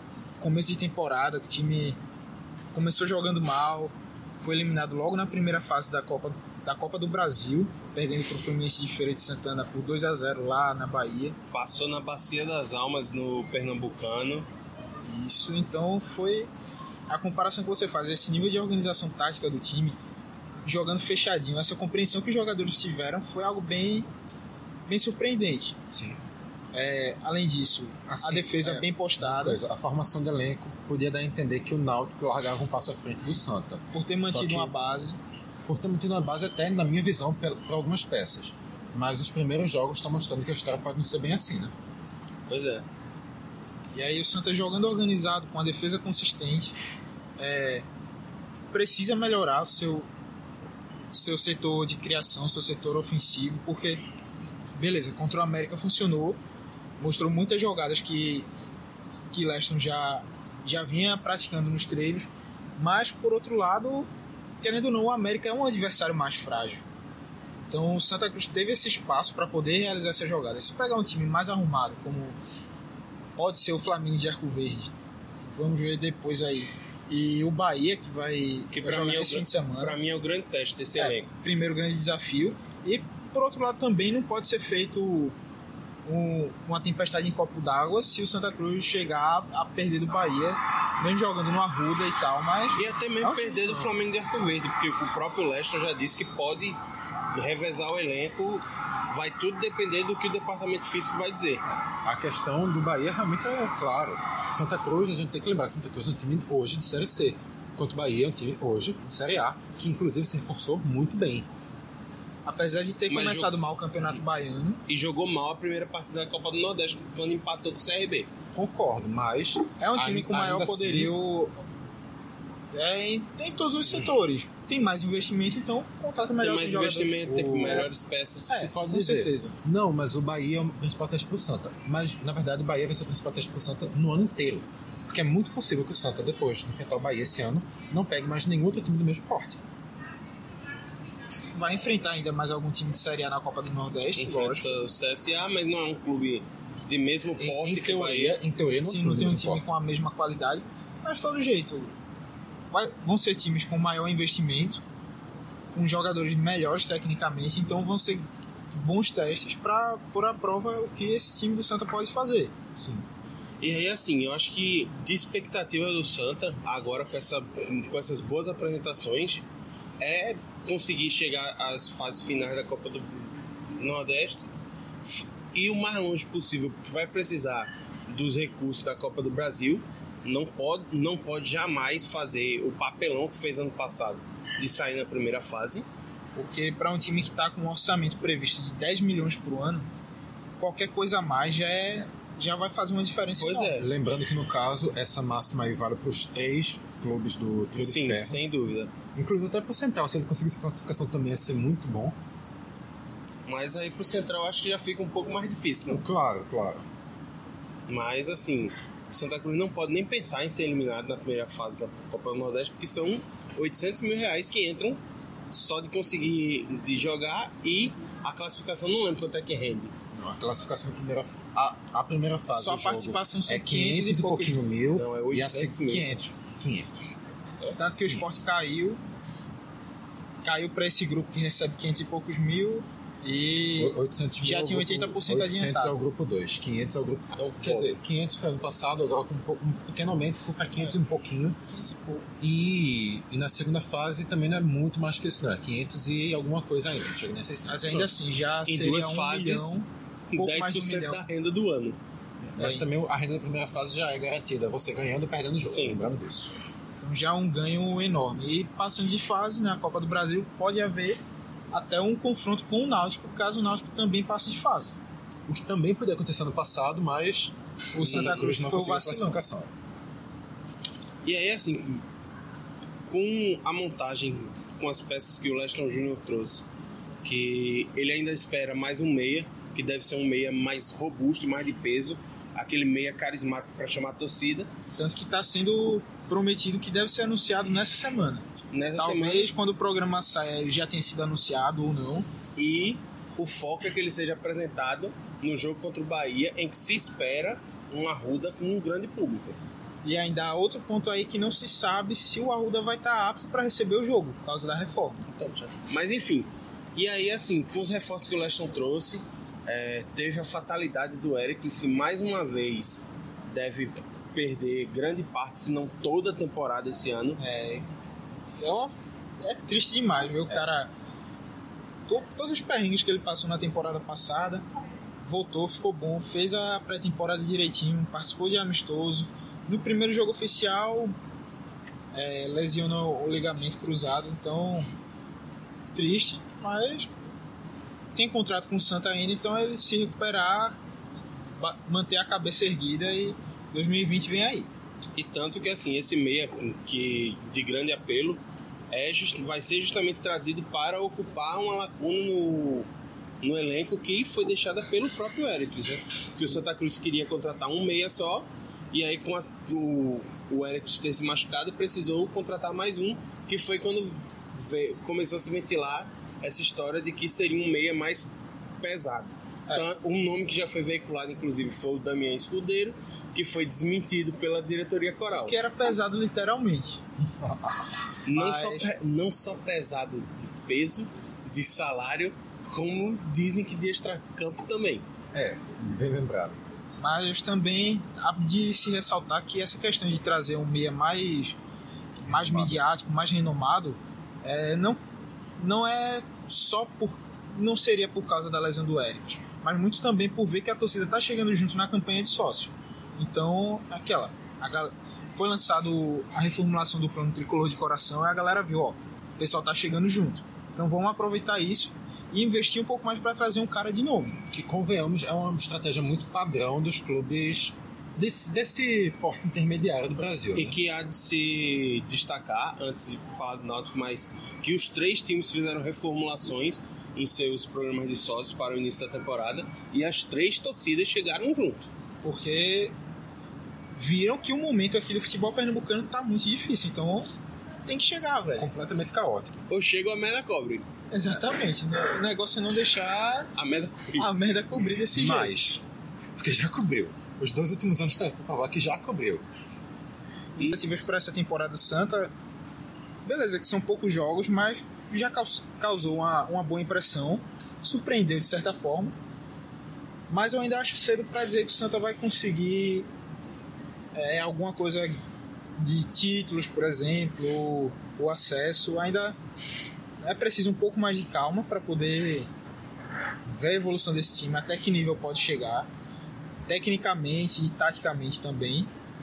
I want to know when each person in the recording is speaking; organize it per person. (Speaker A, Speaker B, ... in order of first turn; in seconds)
Speaker A: 0.4-2.0, 2.7-11.4, 15.1-16.5, 17.1-20.0, 20.6-24.1, 24.9-25.8, 26.7-29.6, 33.9-35.2, 43.9-46.7, 47.4-47.9, 48.7-50.1, 51.1-54.0, 54.8-56.4, 57.0-58.5, 59.3-64.1, 64.6-66.8, 67.7-72.4, 73.4-74.9, 75.5-80.0, 81.0-85.3, 86.1-93.9, 112.5-114.8, 119.8-121.7, 122.7-127.9, 128.5-129.6, 141.5-144.8, 148.8-151.9, 152.7-154.8, 155.7-162.5, 186.4-189.9, 190.6-193.8, 222.5-224.6, 226.1-226.3, 227.8-229.0, 230.4-236.0, 241.7-242.3, 247.7-251.2, 252.6-252.9, 257.0-261.2, 261.7-265.0, 267.9-269.4, 285.0-292.3, 300.0-305.2, 317.4-317.9, 318.6-320.9, 322.1-324.6, 325.2-331.1, 332.1-334.9, 335.9-337.1, 338.1-340.8, 341.6-344.7, 375.4-377.0, 378.3-378.9, 387.0-391.6, 392.3-395.0, 395.6-414.4, 432.2-432.9, 434.0-437.3, 437.9-438.7, 441.1-443.5, 444.2-445.6, 450.6-452.3, 453.2-459.2, 460.3-463.1, 464.1-465.2, 465.8-469.4, 470.2-472.5, 473.5-475.9, 476.7-478.9
Speaker B: 11.5-14.5, 42.5-42.9, 78.7-81.3, 92.8-96.8, 97.3-101.6, 113.1-113.5, 114.9-118.3, 126.4-128.7, 144.2-148.4, 163.6-169.4, 170.0-174.5, 175.0-185.9, 193.4-193.8, 197.8-198.9, 203.5-206.0, 207.9-215.0, 215.5-219.9, 224.9-226.1, 237.3-237.9, 248.7-249.8, 250.3-252.0, 255.7-256.0, 268.1-268.4, 271.2-272.0, 273.1-276.6, 277.2-284.7, 288.7-289.5, 292.6-299.6, 305.3-317.4, 345.1-348.4, 348.9-352.9, 353.4-368.3, 368.8-375.6, 378.3-385.0, 420.6-431.9, 439.7-440.9, 443.6-444.3
Speaker C: 25.9-26.2, 28.1-34.7, 35.7-41.7, 102.0-111.5, 118.5-121.1, 127.2-127.9, 128.5-139.6, 147.4-149.7, 162.8-163.0, 193.7-198.4, 199.2-202.2, 205.9-206.8, 220.1-227.2, 233.8-241.6, 242.4-248.2, 252.5-256.6, 265.5-269.7, 377.2-378.0, 385.3-386.6, 392.3-392.7, 414.5-420.8, 438.6-439.6, 445.1-445.8, 446.4-449.4